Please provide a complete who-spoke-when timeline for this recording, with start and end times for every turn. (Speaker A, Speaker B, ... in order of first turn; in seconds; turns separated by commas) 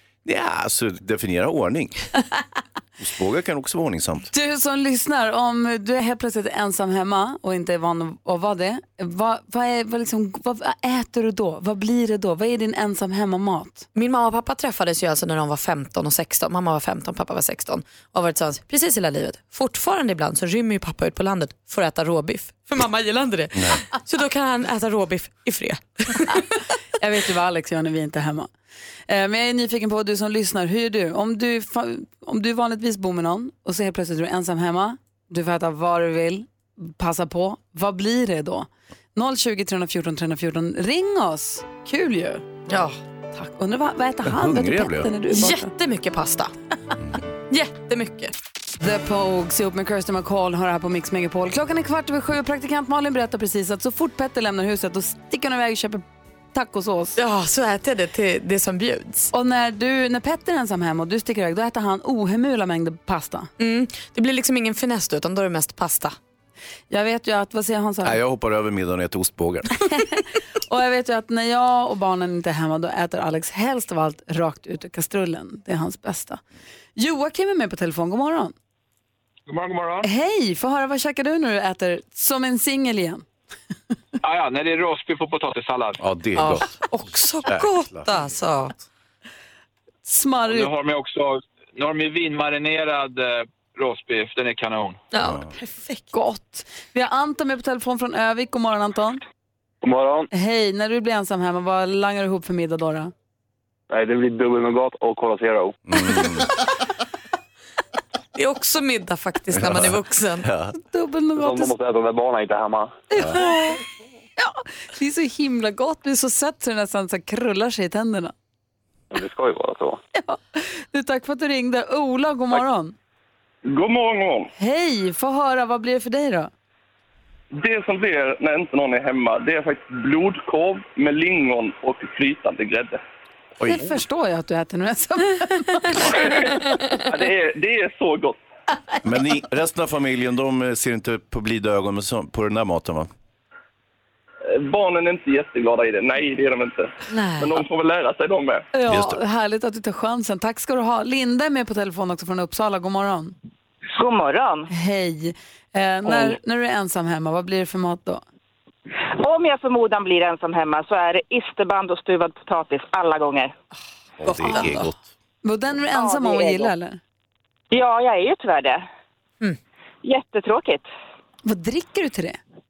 Speaker A: 0.2-1.9, Speaker A: 3.0-4.3, Speaker B: 4.3-13.8, Speaker C: 13.9-26.4, Speaker A: 23.6-23.8, Speaker B: 27.0-28.5, Speaker B: 29.1-42.4, Speaker C: 42.7-43.0, Speaker B: 43.3-45.7, Speaker A: 44.2-45.1, Speaker C: 45.3-46.5, Speaker C: 47.5-48.3, Speaker B: 48.8-57.2, Speaker C: 57.2-59.3, Speaker B: 59.3-63.5, Speaker C: 63.6-66.2, Speaker B: 66.9-68.2, Speaker A: 68.0-69.7, Speaker B: 70.7-76.4, Speaker B: 77.0-78.5, Speaker D: 79.5-79.9, Speaker B: 80.0-83.2, Speaker D: 84.2-86.0, Speaker A: 86.0-86.7, Speaker C: 86.4-88.8, Speaker A: 87.5-88.8, Speaker B: 90.1-90.7, Speaker D: 90.5-95.0, Speaker C: 95.1-96.1, Speaker A: 95.2-95.5, Speaker B: 96.1-99.2, Speaker E: 99.8-100.3, Speaker B: 100.3-103.1, Speaker E: 103.9-105.8, Speaker A: 105.9-106.5, Speaker C: 108.3-110.5, Speaker A: 109.5-110.8, Speaker B: 110.9-111.7, Speaker E: 111.4-113.0, Speaker B: 113.1-113.8, Speaker B: 114.4-118.3, Speaker E: 119.1-120.0, Speaker B: 120.2-122.9, Speaker F: 123.7-124.5, Speaker B: 124.6-126.5, Speaker F: 127.5-133.0, Speaker A: 133.6-134.0, Speaker B: 133.7-136.4, Speaker F: 137.1-138.4, Speaker A: 139.0-143.1, Speaker F: 144.5-148.7, Speaker C: 147.1-147.5, Speaker B: 148.7-153.3, Speaker A: 148.9-149.2, Speaker G: 153.9-154.7, Speaker B: 154.7-158.2, Speaker G: 159.2-163.5, Speaker A: 164.2-165.0, Speaker C: 164.3-164.9, Speaker B: 164.5-164.8, Speaker B: 165.4-167.0, Speaker G: 165.9-166.7, Speaker G: 167.7-168.9, Speaker G: 170.0-170.9, Speaker B: 171.4-172.4